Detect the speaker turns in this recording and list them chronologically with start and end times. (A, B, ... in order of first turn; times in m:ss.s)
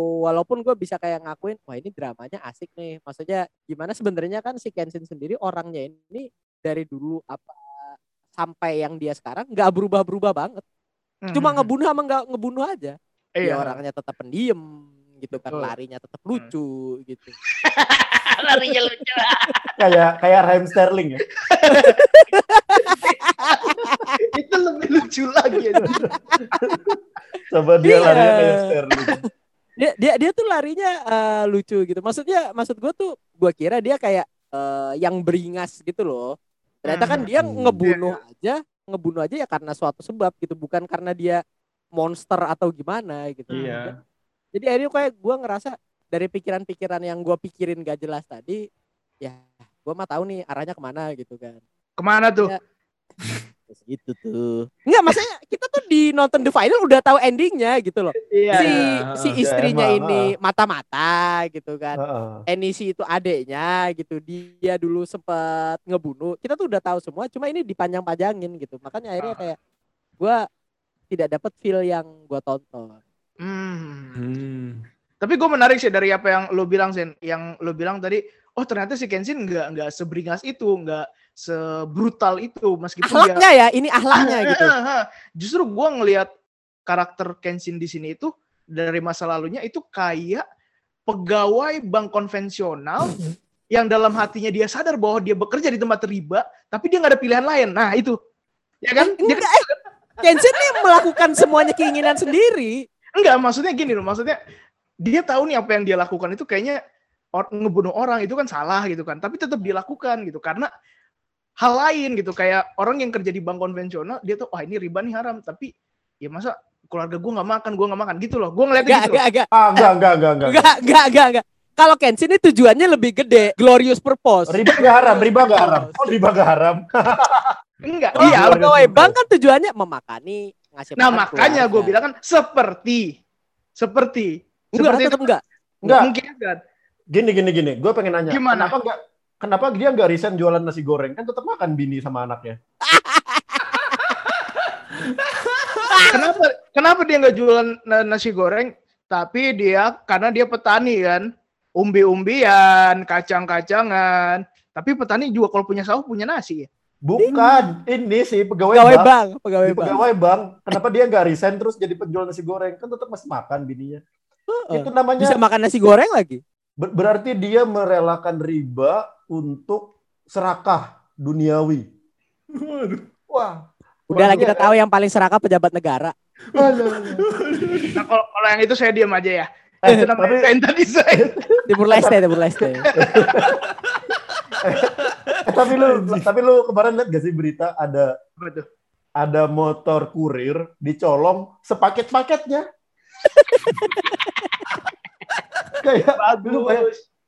0:00.2-0:10.6 A
0:11.2-0:11.7 B
0:11.3-0:17.4 A
0:13.4-0:13.8 B
0:15.5-0:15.7 B
0:17.6-0:19.7 B
0:19.8-0:21.2 C
0:21.4-0:22.1 B
0:21.7-0:24.1 A
0:22.8-0:26.8 B
0:25.8-0:29.2 C
0:25.8-0:26.4 A
0:27.8-0:28.7 A
0:29.8-0:41.4 A
0:36.9-0:37.3 B
0:37.4-0:37.8 C
0:37.8-0:38.2 B
0:42.0-0:43.9 A
0:43.5-0:43.8 B
0:43.5-0:44.0 D
0:44.5-0:48.6 A
0:49.2-0:51.6 A
0:52.0-0:52.5 B
0:53.7-1:09.6 A
0:58.3-0:58.8 B
0:58.5-0:59.4 D
0:59.4-1:00.3 C
1:02.0-1:02.4 C
1:11.1-1:13.0 A
1:13.4-1:14.2 B
1:14.2-1:14.9 D
1:15.2-1:23.5 B
1:23.0-1:24.7 A
1:24.2-1:26.3 B
1:26.9-1:30.4 B
1:31.1-1:38.2 B
1:38.8-1:39.7 B
1:39.0-1:39.6 A
1:40.2-1:42.8 A
1:40.3-1:42.1 B
1:43.2-1:44.4 B
1:45.0-1:46.8 B
1:47.4-1:50.7 B
1:51.6-1:55.7 B
1:56.2-1:59.2 B
1:58.8-1:59.9 A
1:59.5-2:00.7 C
2:00.4-2:06.1 A
2:04.5-2:07.6 C
2:07.8-2:08.7 B
2:08.1-2:09.2 C
2:08.2-2:12.0 A
2:11.0-2:13.1 B
2:13.8-2:15.2 B
2:14.7-2:15.4 A
2:15.8-2:16.1 C
2:15.8-2:16.6 B
2:17.1-2:22.6 C
2:18.3-2:18.7 B
2:22.9-2:24.1 A
2:24.2-2:26.1 D
2:25.9-2:26.3 A
2:26.1-2:36.7 B
2:37.0-2:39.1 C
2:37.2-2:37.7 A
2:38.7-2:40.0 A
2:39.6-2:44.0 C
2:44.5-2:46.4 A
2:44.7-2:45.4 C
2:46.8-2:51.8 C
2:52.5-2:53.0 D
2:53.3-2:54.7 C
2:54.1-2:56.2 A
2:56.5-2:58.0 D
2:56.6-2:57.3 C
2:58.0-3:01.4 B
2:59.8-3:00.5 C
3:01.2-3:02.2 C
3:01.7-3:02.9 A
3:02.9-3:03.6 B
3:02.9-3:03.6 C
3:03.8-3:04.0 D
3:04.6-3:08.1 C
3:05.0-3:06.2 D
3:08.4-3:08.7 B
3:09.2-3:12.6 C
3:13.3-3:14.2 A
3:15.8-3:16.9 C
3:16.2-3:17.0 B